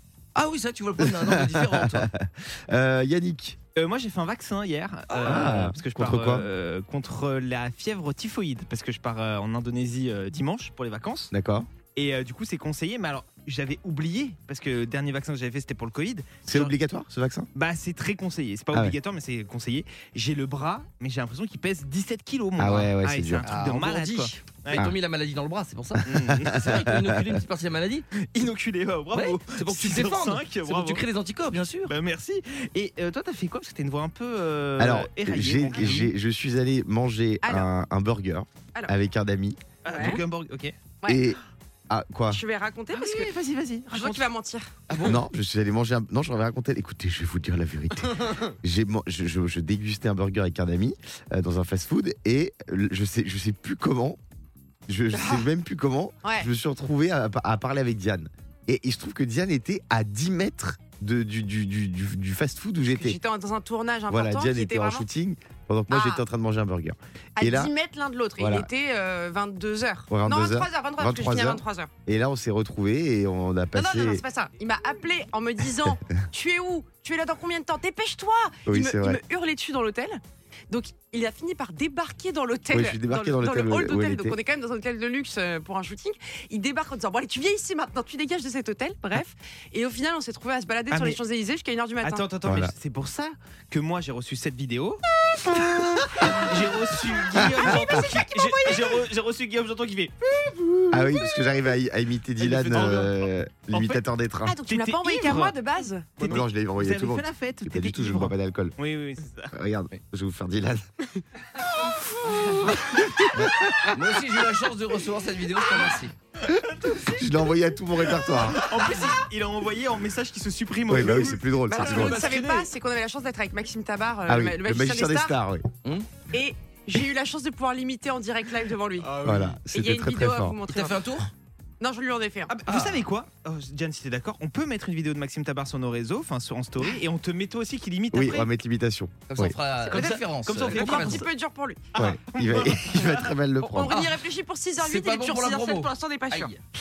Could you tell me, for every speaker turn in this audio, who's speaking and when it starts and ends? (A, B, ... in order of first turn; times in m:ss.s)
0:00.4-0:02.1 A
0:01.0-0:03.6 B
0:03.8-0:11.3 C
0:05.2-0:06.5 B
0:11.3-0:11.7 B
0:12.0-0:16.8 C
0:16.5-0:17.5 B
0:17.6-0:24.9 C
0:22.6-0:23.5 B
0:23.4-0:28.1 A
0:26.0-0:26.8 C
0:26.1-0:27.4 B
0:28.2-0:31.0 C
0:29.1-0:31.9 A
0:31.9-0:36.1 C
0:34.8-0:40.2 B
0:37.4-0:37.7 D
0:39.8-0:40.8 C
0:39.9-0:40.2 D
0:41.1-0:42.4 B
0:42.3-0:43.3 D
0:42.9-0:44.3 C
0:43.9-0:44.7 D
0:44.9-0:45.2 A
0:45.0-0:54.2 B
0:54.9-1:03.2 B
0:55.1-0:55.5 D
0:56.2-0:56.5 D
1:02.9-1:05.1 D
1:04.1-1:07.7 B
1:05.9-1:06.2 D
1:07.4-1:11.9 D
1:08.4-1:08.7 B
1:10.1-1:14.2 B
1:13.8-1:32.2 D
1:18.7-1:19.2 B
1:22.7-1:24.4 B
1:30.9-1:31.2 C
1:32.0-1:40.2 C
1:32.4-1:32.7 B
1:37.4-1:38.9 D
1:40.9-1:44.6 B
1:42.4-1:43.2 C
1:43.7-1:44.0 C
1:44.4-1:46.4 D
1:44.7-1:45.6 C
1:46.2-1:49.5 C
1:46.2-1:48.8 B
1:49.5-1:50.9 B
1:52.3-1:52.6 A
1:52.6-1:54.0 B
1:53.9-1:56.2 A
1:56.5-1:57.2 C
1:57.0-1:58.7 B
1:58.2-2:02.1 C
2:00.9-2:02.3 B
2:01.7-2:05.4 D
2:01.9-2:02.7 A
2:04.3-2:05.7 B
2:05.8-2:06.1 A
2:06.3-2:09.1 D
2:09.0-2:09.6 C
2:09.2-2:10.6 B
2:09.7-2:11.0 D
2:10.7-2:11.3 A
2:11.8-2:12.5 D
2:12.5-2:18.5 C
2:12.7-2:13.0 A
2:18.1-2:19.6 B
2:19.3-2:21.3 A
2:19.9-2:21.9 D
2:19.9-2:21.3 C
2:22.0-2:23.3 C
2:22.0-2:24.0 B
2:23.6-2:26.5 D
2:23.9-2:24.2 A
2:24.8-2:26.6 A